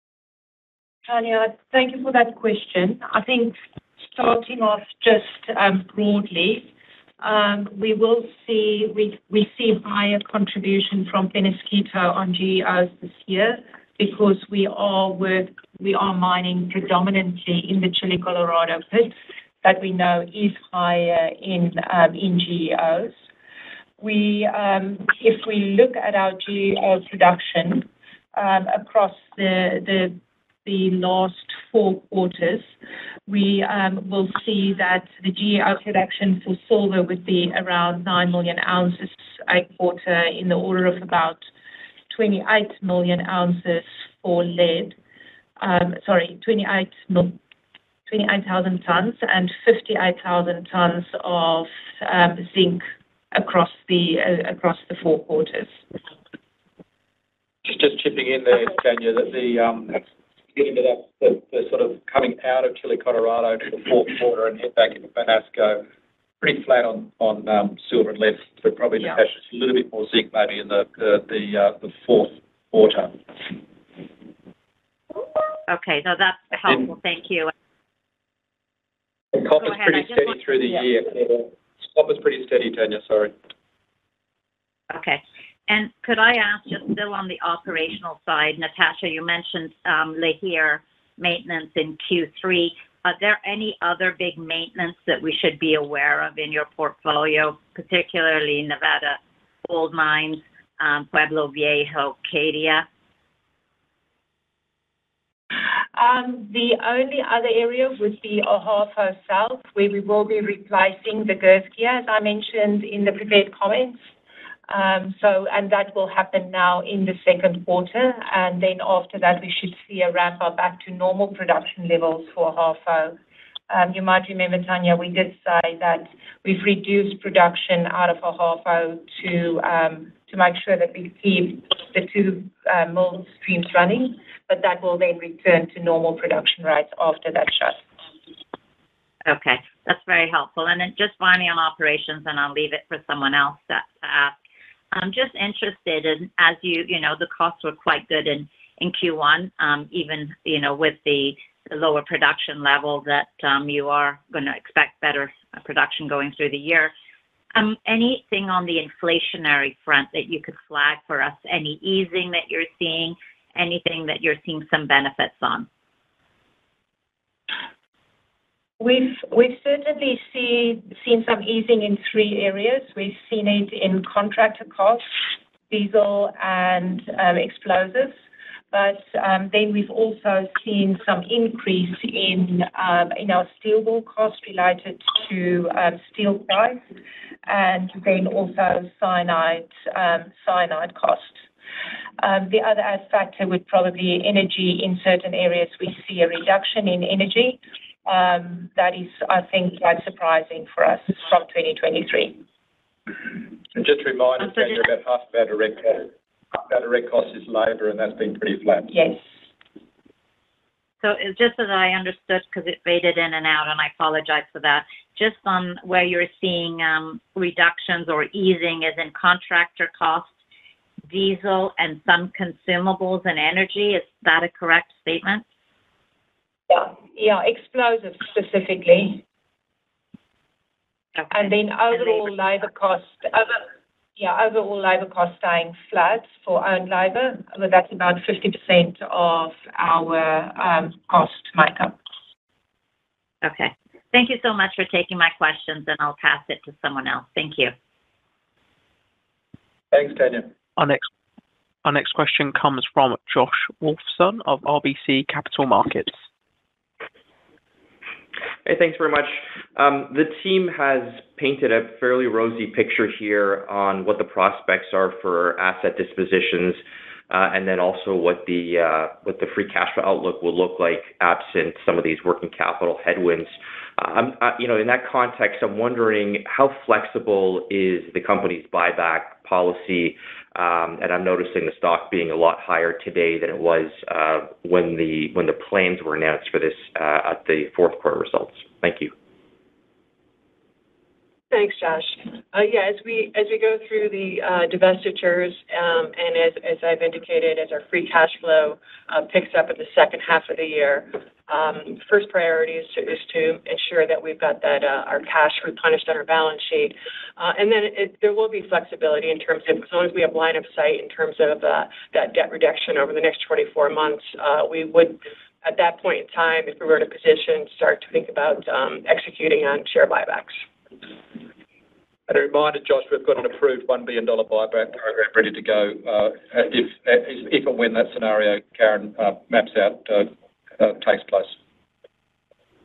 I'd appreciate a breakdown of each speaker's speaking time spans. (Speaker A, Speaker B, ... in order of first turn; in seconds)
Speaker A: 1.1-3.5, 4.1-6.7, 7.2-23.1, 24.0-32.7, 33.3-41.4, 42.1-45.0, 45.6-47.4, 48.1-55.8, 105.9-114.0, 114.7-123.2, 123.7-137.8, 168.8-175.0, 175.7-178.1, 178.7-186.8, 187.4-191.4, 192.2-202.4, 208.9-209.2, 226.7-229.2, 231.3-233.6, 234.2-242.0
Speaker B: 57.6-60.0, 60.5-65.8, 66.4-73.2, 79.3-83.3, 203.7-206.1, 206.6-208.9, 249.9-250.5, 322.3-331.5
Speaker C: 75.7-77.5, 79.6-80.8, 84.9-102.8, 139.2-144.3, 144.9-156.9, 157.5-165.7, 211.0-220.3, 221.1-225.4, 243.4-247.7
Speaker D: 250.8-251.0, 251.8-256.1
Speaker E: 258.6-289.1
Speaker F: 291.5-320.6